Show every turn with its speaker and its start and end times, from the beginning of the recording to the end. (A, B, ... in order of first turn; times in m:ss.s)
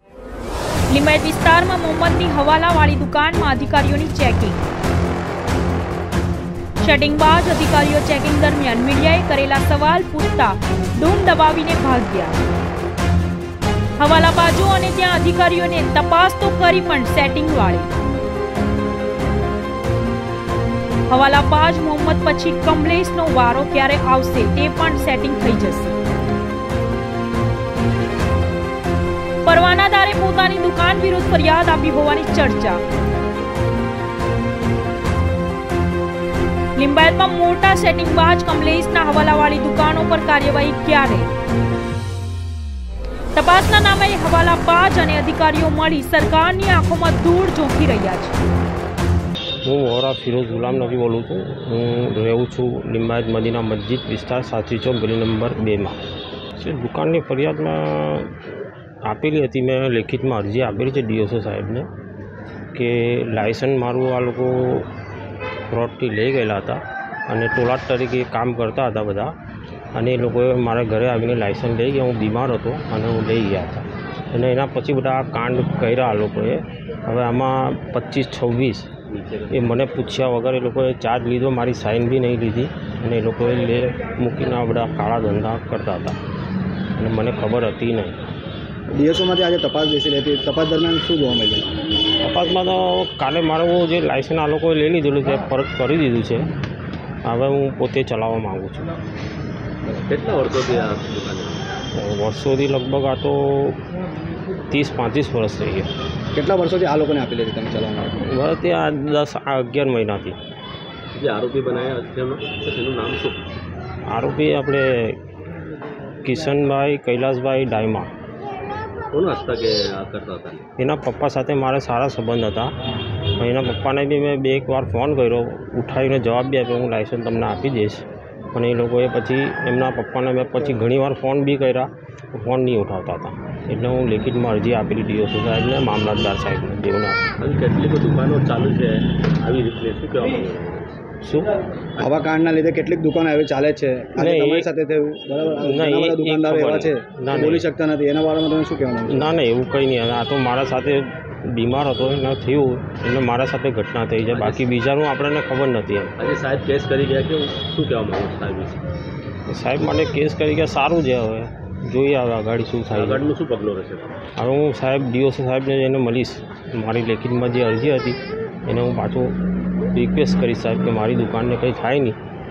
0:00.9-0:04.7 A
0:06.8-0:12.4 A
0:14.0-0:17.9 A
0:21.1-0:26.0 A
0:29.4-0:32.8 A
0:36.8-0:41.3 A
0:43.4-0:48.4 A
0:49.6-0:56.0 B
0:56.6-1:01.9 B
1:02.7-1:04.9 B
1:05.7-1:09.3 B
1:09.9-1:18.9 B
1:19.1-1:19.7 C
1:19.5-1:26.2 B
1:27.0-1:28.2 B
1:28.9-1:31.7 D
1:32.2-1:36.5 B
1:37.2-1:38.9 B
1:40.0-1:41.7 C
1:41.9-1:43.8 B
1:44.7-1:45.9 B
1:46.3-1:48.1 D
1:48.2-1:50.4 B
1:51.1-1:53.4 C
1:54.1-1:55.2 B
1:56.2-1:58.1 B
1:59.1-2:00.6 C
2:00.8-2:02.7 B
2:03.2-2:17.2 B
2:17.4-2:21.0 C
2:21.2-2:21.5 B
2:22.0-2:29.3 D
2:24.2-2:24.7 B
2:25.6-2:27.7 B
2:29.1-2:36.1 B
2:34.3-2:34.7 C
2:36.2-2:38.8 C
2:39.5-2:43.3 B
2:42.9-2:44.2 C
2:44.4-2:49.4 B
2:49.9-2:52.2 B